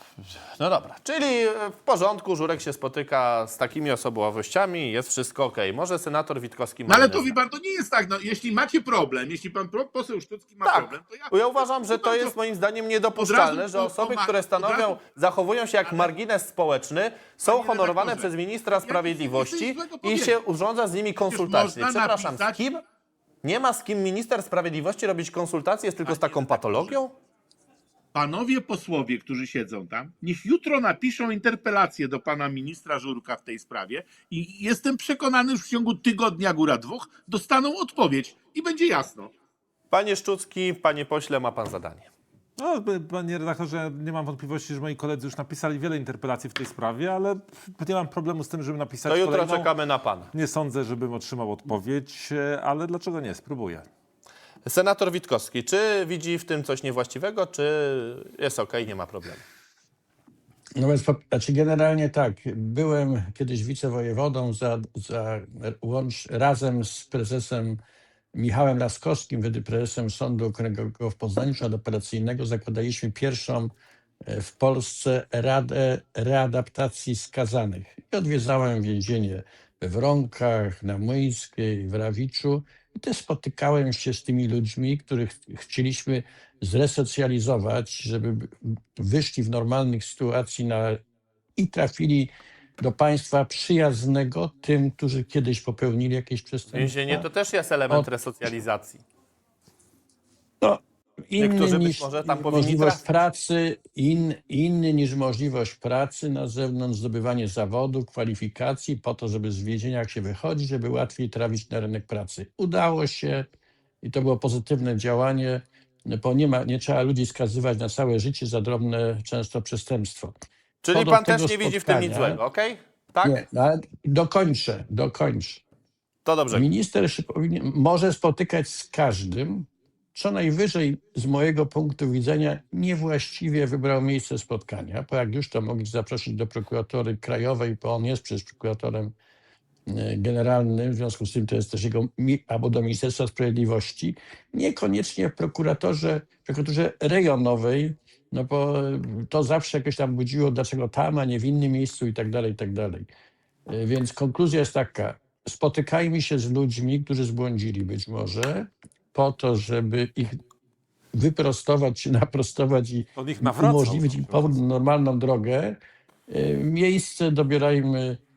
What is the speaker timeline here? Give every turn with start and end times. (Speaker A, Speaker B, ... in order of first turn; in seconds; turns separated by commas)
Speaker A: 0.6-7.3, Speaker B: 6.9-12.3, Speaker A: 10.6-22.8, Speaker B: 13.2-15.0, Speaker B: 15.8-16.1, Speaker B: 17.4-20.3, Speaker B: 21.2-22.6, Speaker A: 23.4-27.1, Speaker B: 26.1-27.0, Speaker B: 28.1-39.3, Speaker A: 39.9-42.1, Speaker C: 42.6-49.7, Speaker A: 49.0-50.3, Speaker C: 50.3-53.9, Speaker A: 54.7-59.4, Speaker D: 60.8-67.8, Speaker D: 68.3-73.7, Speaker D: 74.3-91.0, Speaker D: 91.6-97.3, Speaker A: 96.7-99.0, Speaker D: 100.6-113.5, Speaker A: 101.4-103.0, Speaker D: 114.0-120.3, Speaker A: 120.8-123.4, Speaker D: 120.9-122.4, Speaker D: 123.2-125.6, Speaker A: 126.2-126.7, Speaker D: 126.5-139.2, Speaker D: 139.9-153.1, Speaker D: 153.7-160.4, Speaker D: 161.2-165.8, Speaker C: 163.2-164.6, Speaker D: 166.3-168.2